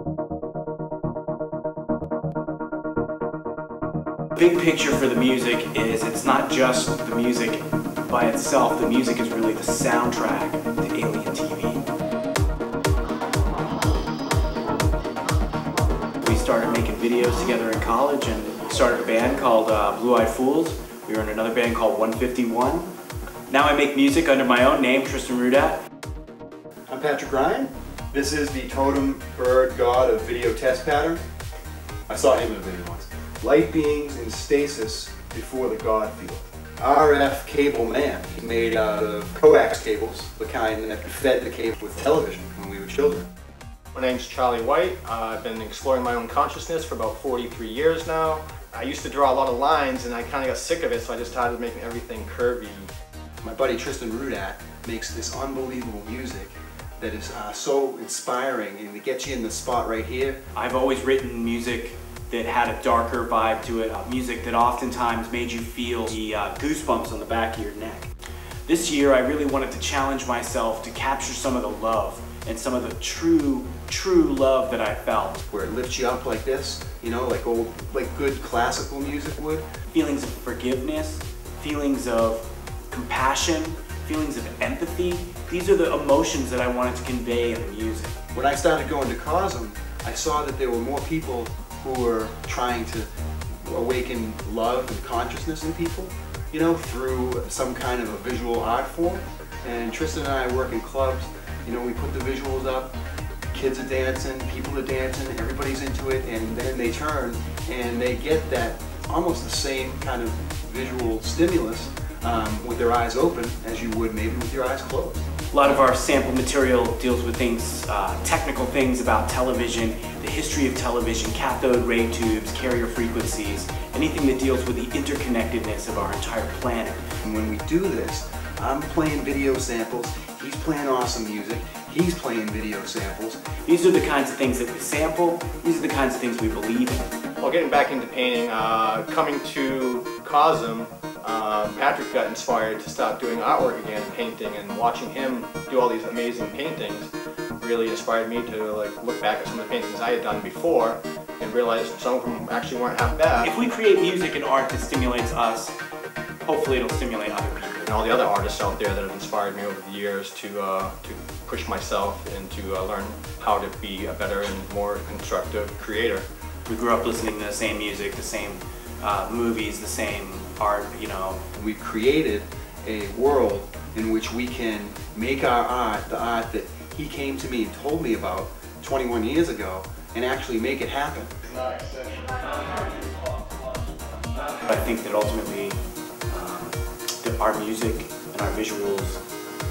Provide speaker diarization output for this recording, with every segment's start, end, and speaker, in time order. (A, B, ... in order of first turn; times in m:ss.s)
0:04.4-0:11.8 A
0:16.2-0:22.9 A
0:23.5-0:25.8 A
0:26.9-0:31.2 B
0:32.1-0:43.3 B
0:43.9-0:52.9 C
0:53.4-1:00.4 B
1:00.6-1:08.1 A
1:08.7-1:15.4 A
1:15.5-1:19.6 B
1:19.9-1:28.2 A
1:28.3-1:33.1 B
1:33.6-1:42.9 B
1:43.5-1:55.3 B
1:55.5-2:07.0 A
2:07.2-2:13.4 B
2:13.6-2:17.1 A
2:17.4-2:33.5 C
2:33.4-2:35.7 A
2:36.4-2:37.9 A
2:37.8-2:46.2 C
2:46.7-2:51.4 A
2:51.6-3:01.3 B
3:04.6-3:05.8 A
3:06.3-3:09.2 A